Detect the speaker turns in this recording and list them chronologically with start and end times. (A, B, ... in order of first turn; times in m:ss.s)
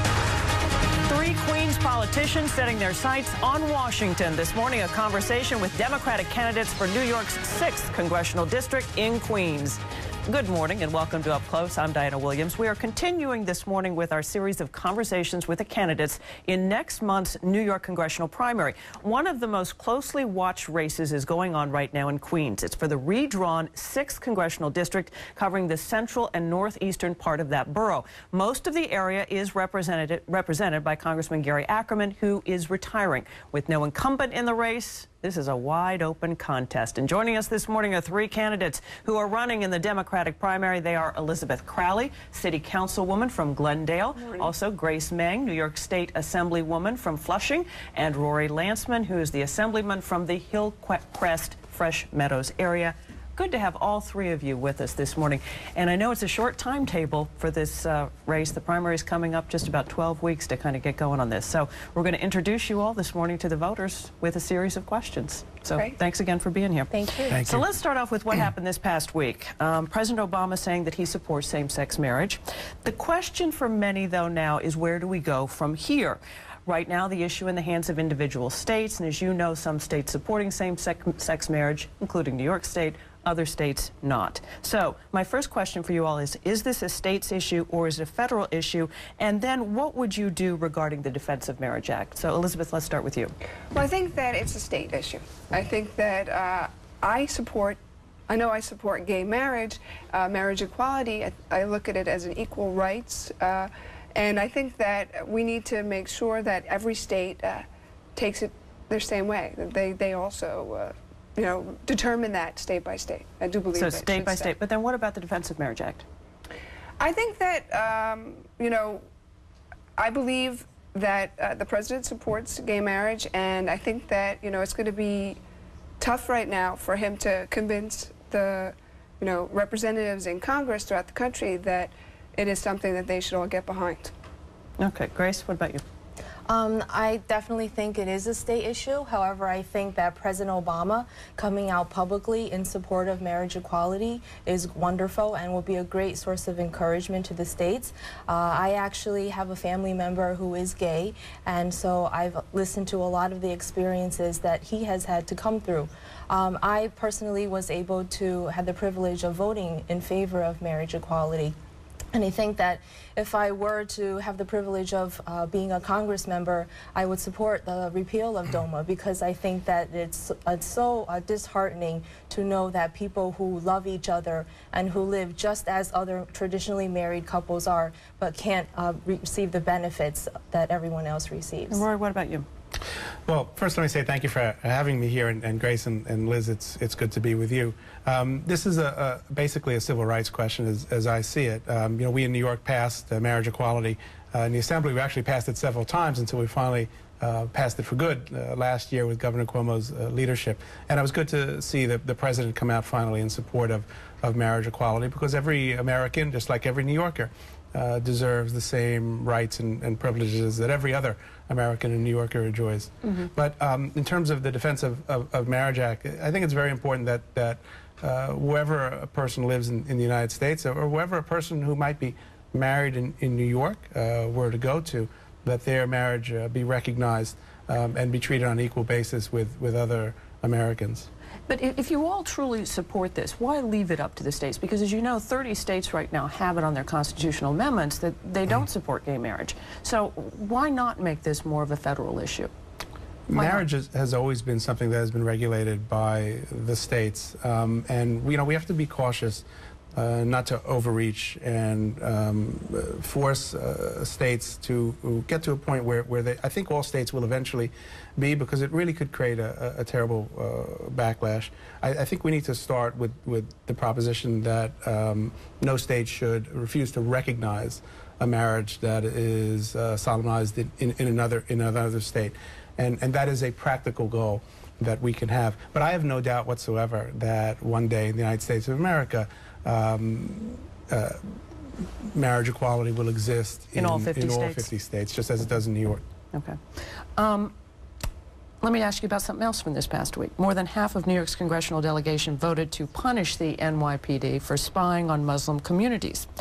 0:01.1-1:33.3 A
1:06.9-1:07.4 B
1:07.3-1:07.6 C
1:33.7-1:37.8 D
1:38.3-1:47.6 D
1:48.2-1:54.5 D
1:53.7-1:56.0 A
1:57.0-1:59.0 D
2:00.0-2:05.4 D
2:06.0-2:14.1 D
2:14.8-2:15.8 A
2:16.5-2:41.5 B
2:42.1-3:01.8 B
3:01.7-3:02.4 A
3:03.3-3:51.1 C
3:51.5-4:02.5 A
4:03.3-4:09.4 C
4:03.3-4:03.6 A
4:09.9-4:41.2 C
4:41.8-4:46.0 C
4:43.8-4:44.6 A
4:46.3-4:46.6 A
4:47.2-4:47.5 A
4:48.6-4:56.3 A